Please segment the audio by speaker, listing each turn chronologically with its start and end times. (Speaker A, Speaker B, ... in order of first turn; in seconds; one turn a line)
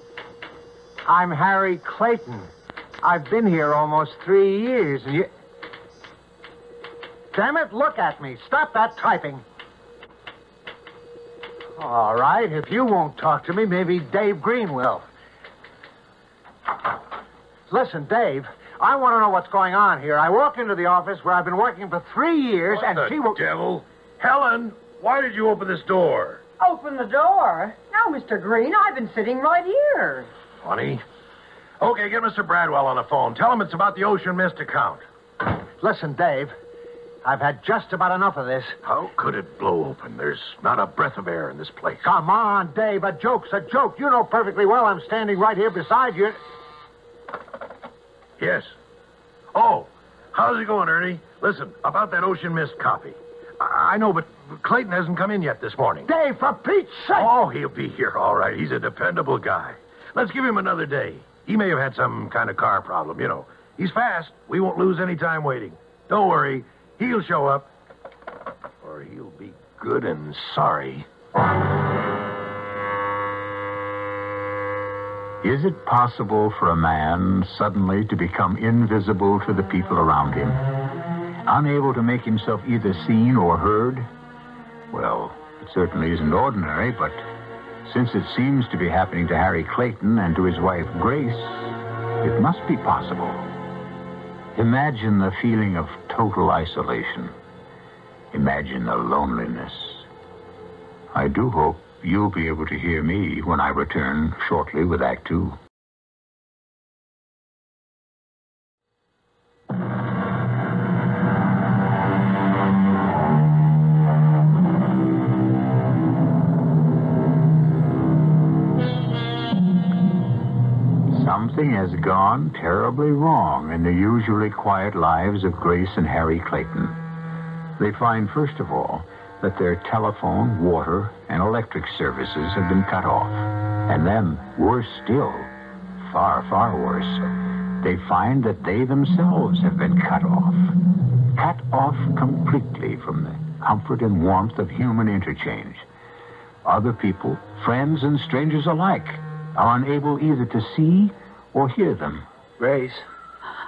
Speaker A: 1.1-2.5
Speaker A: 3.0-5.3
Speaker A: 7.3-9.4
Speaker A: 11.8-15.1
Speaker A: 17.7-23.4
Speaker B: 22.7-26.4
Speaker C: 26.6-30.3
Speaker B: 30.6-31.0
Speaker B: 31.8-35.0
Speaker A: 35.8-36.5
Speaker A: 37.2-38.8
Speaker B: 38.8-42.0
Speaker A: 42.0-46.4
Speaker B: 48.4-48.7
Speaker B: 49.5-56.1
Speaker A: 56.0-57.3
Speaker B: 57.1-67.7
Speaker B: 68.8-71.0
Speaker D: 75.4-80.6
Speaker D: 81.5-84.1
Speaker D: 84.9-87.2
Speaker D: 87.8-93.4
Speaker D: 94.5-97.3
Speaker D: 98.3-100.0
Speaker D: 101.1-105.6
Speaker D: 121.1-127.0
Speaker D: 127.8-135.5
Speaker D: 136.0-137.2
Speaker D: 137.8-140.7
Speaker D: 141.3-145.8
Speaker D: 146.6-152.2
Speaker A: 152.6-153.0